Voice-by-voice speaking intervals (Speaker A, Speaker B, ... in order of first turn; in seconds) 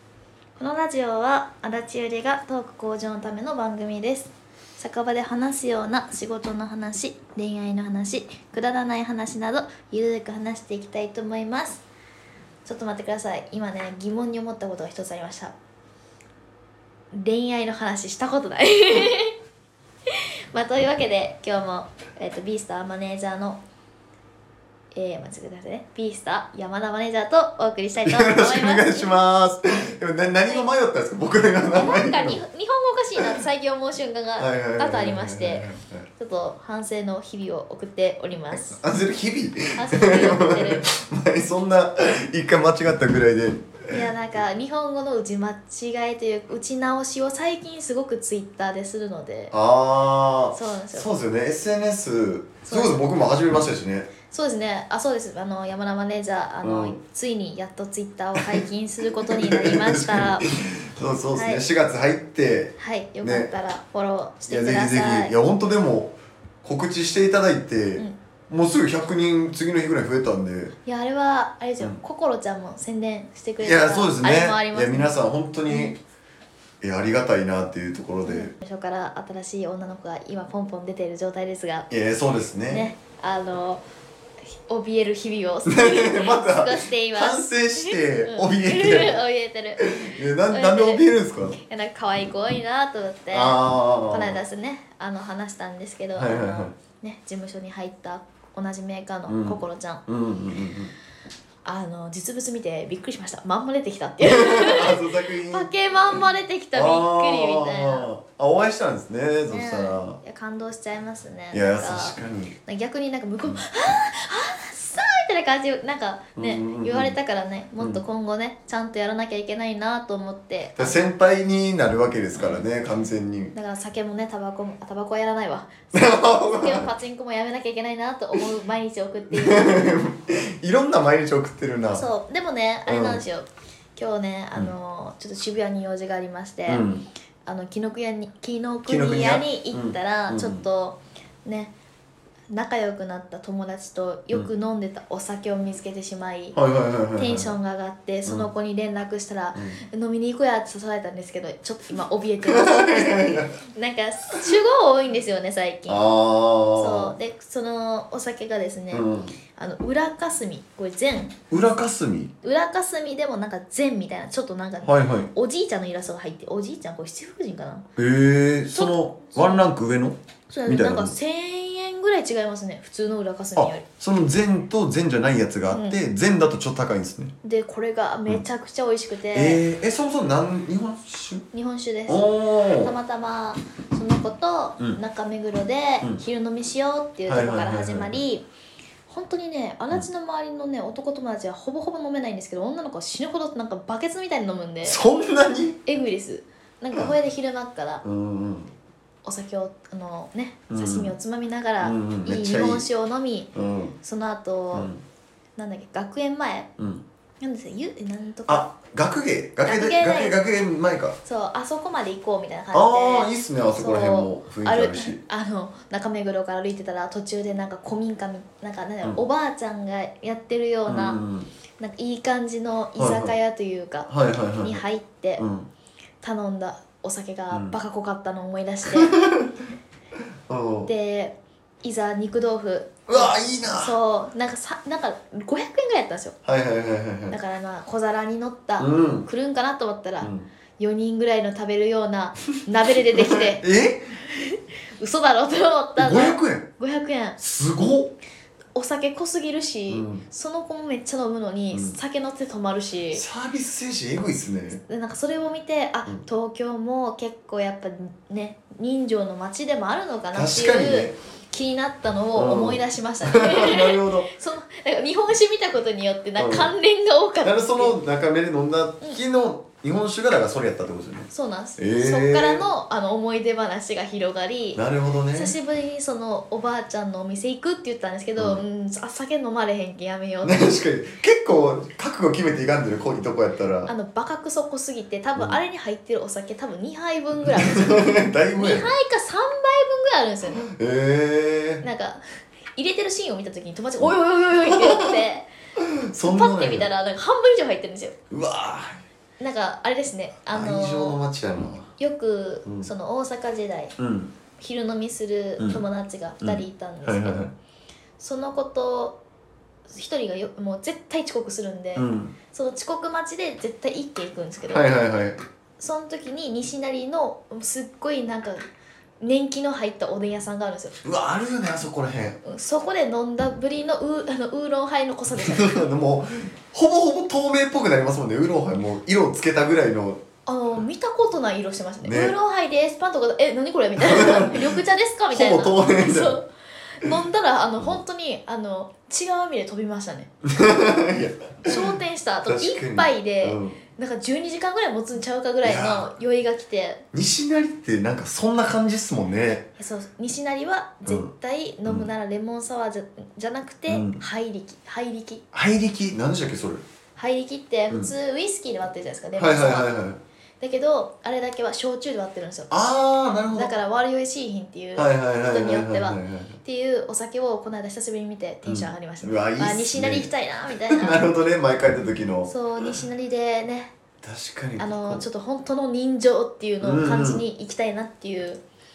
Speaker A: 0.6-11.8, 12.7-15.5, 17.1-19.4, 20.1-23.6, 24.9-29.2, 31.7-38.8, 39.8-40.9, 43.9-49.5, 50.5-51.1, 52.7-53.0, 54.3-60.5, 61.4-61.6, 62.8-65.3, 70.9-75.1, 75.7-76.0, 78.2-81.9, 82.7-83.8, 84.5-91.1, 91.6-100.0, 101.7-108.1, 109.5-121.1, 122.3-122.6, 123.5-129.9, 131.9-136.9, 137.5-141.7, 142.5-146.6, 147.2-156.0, 156.8-161.4, 162.4-167.9, 168.7-169.7, 170.5-173.9, 175.7-176.0, 177.4-179.6, 181.5-188.5, 189.1-195.0, 195.9-198.0, 199.2-203.5, 204.0-204.9, 205.6-206.7, 207.4-208.7, 209.6-210.4, 211.2-221.2, 221.8-225.4, 226.2-229.2, 230.9-236.4, 237.3-243.6, 244.2-247.4, 248.8-253.2, 254.7-268.0, 271.3-274.8, 275.3-280.6, 283.9-290.7, 291.8-292.2, 292.8-295.5, 296.2-298.2, 299.4-301.2, 302.0-304.0, 304.6-307.5, 308.2-309.2, 309.9-315.0, 315.8-318.6, 319.2-321.0, 322.4-325.8, 330.5-340.3, 341.6-347.0, 349.8-355.4, 357.2-359.9, 360.6-362.7, 363.5-371.2, 372.5-373.9, 374.8-378.6
Speaker B: 28.0-32.4, 34.4-36.1, 38.5-44.0, 49.5-54.1, 56.6-57.0, 58.4-63.5, 64.5-70.7, 73.6-76.0, 76.8-78.5, 81.9-82.9, 85.7-89.2, 89.8-91.6, 93.3-94.4, 96.2-96.8, 99.3-100.9, 104.2-105.7, 106.7-110.2, 111.5-112.6, 116.4-117.1, 120.8-123.5, 125.9-126.9, 129.3-132.1, 132.9-133.2, 136.7-137.1, 138.9-140.6, 146.5-147.5, 149.6-149.8, 152.4-153.6, 155.9-157.1, 158.9-159.4, 161.5-162.3, 164.8-165.3, 168.0-171.2, 173.6-177.3, 179.3-181.5, 182.1-182.9, 187.3-188.2, 194.8-195.8, 198.0-198.7, 200.7-201.1, 201.8-202.9, 203.5-204.0, 204.7-205.0, 206.8-207.1, 208.5-211.2, 212.7-215.2, 220.9-221.5, 223.0-223.4, 224.1-224.8, 225.4-225.7, 227.5-227.8, 228.9-229.6, 230.5-230.9, 233.1-234.0, 236.4-237.4, 238.8-239.3, 240.2-240.5, 243.1-244.1, 246.0-246.7, 247.4-248.2, 249.9-250.2, 251.7-252.0, 253.1-254.8, 260.3-261.2, 262.4-264.3, 266.4-266.7, 267.4-272.7, 274.8-275.6, 280.4-283.9, 287.6-288.9, 290.6-291.8, 294.6-295.2, 295.8-296.9, 298.3-299.0, 300.5-301.9, 304.0-304.3, 306.4-307.5, 312.0-312.4, 314.7-315.4, 321.0-322.4, 325.3-330.2, 332.0-332.4, 334.0-334.8, 335.3-336.4, 340.4-341.9, 342.5-343.8, 345.6-346.1, 347.1-349.7, 353.9-354.2, 355.5-356.8, 359.4-360.2, 362.7-363.7, 365.0-366.6, 368.6-370.3, 370.9-372.5, 374.2-375.2, 376.8-377.4